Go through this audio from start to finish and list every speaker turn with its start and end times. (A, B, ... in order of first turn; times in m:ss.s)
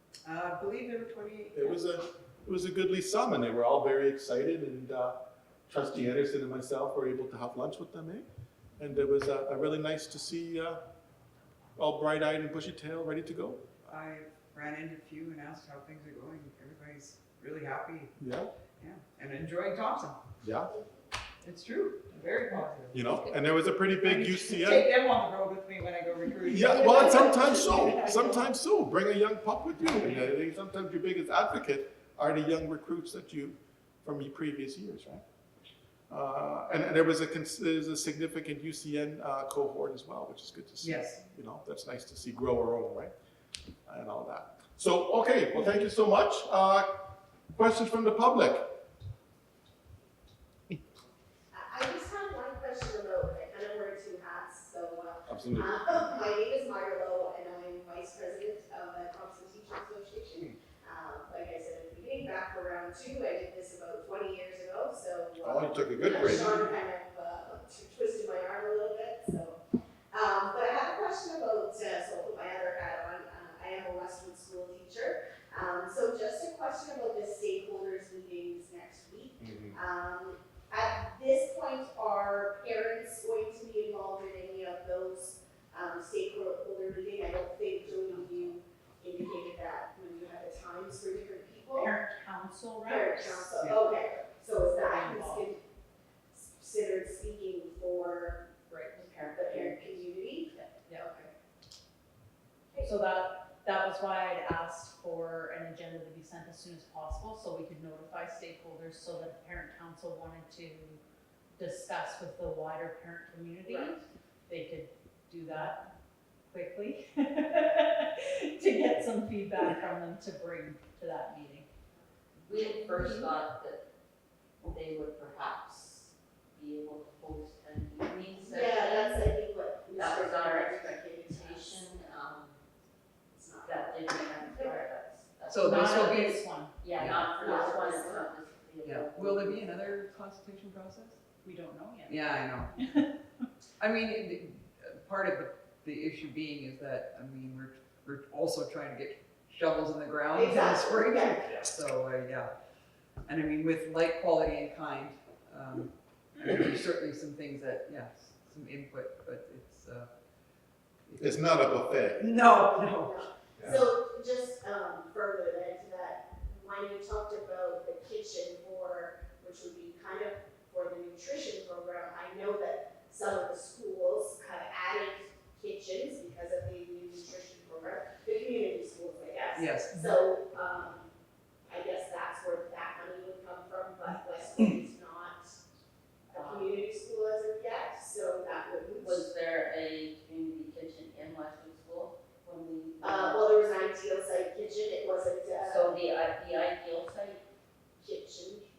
0:00.2-0:01.8 A
0:01.5-0:05.2 B
0:05.7-0:08.2 B
0:08.8-0:10.8 B
0:11.8-0:13.8 B
0:13.9-0:18.2 A
0:18.2-0:18.5 B
0:18.8-0:20.2 A
0:20.4-0:20.7 B
0:21.4-0:23.1 A
0:22.9-0:24.9 B
0:24.0-0:28.3 A
0:26.4-0:35.2 B
0:36.1-0:43.1 B
0:40.8-0:41.2 A
0:43.8-0:48.7 B
0:51.5-1:09.6 C
0:55.3-0:56.0 B
1:05.4-1:06.6 B
1:10.1-1:31.9 C
1:19.4-1:19.8 B
1:27.9-1:28.5 D
1:31.8-1:33.6 D
1:32.8-1:35.6 C
1:34.7-1:35.4 D
1:36.3-1:38.5 C
1:38.7-1:39.0 D
1:38.9-1:41.2 E
1:39.3-1:41.3 C
1:42.7-1:43.0 C
1:42.8-1:51.0 D
1:51.6-1:55.8 D
1:53.6-1:54.0 E
1:56.5-2:01.7 D
2:02.4-2:03.8 E
2:02.5-2:03.3 D
2:04.6-2:09.3 E
2:08.3-2:11.9 C
2:09.9-2:12.6 E
2:13.3-2:14.8 C
2:13.6-2:19.9 E
2:15.5-2:16.4 A
2:15.5-2:16.7 D
2:16.9-2:17.3 A
2:17.4-2:18.3 C
2:18.8-2:21.2 A
2:21.4-2:23.5 D
2:22.1-2:23.0 A
2:23.8-2:32.5 A
2:30.3-2:31.5 C
2:33.2-2:40.1 A
2:41.0-2:43.2 A
2:41.2-2:42.2 B
2:42.2-3:01.1 C
2:43.6-2:43.8 B
2:59.5-2:59.9 A
2:59.9-3:00.2 D
3:01.7-3:05.6 C
3:06.3-3:06.8 E
3:06.3-3:09.2 C
3:09.0-3:13.6 E
3:13.0-3:15.9 C
3:15.6-3:17.4 E
3:18.0-3:18.7 C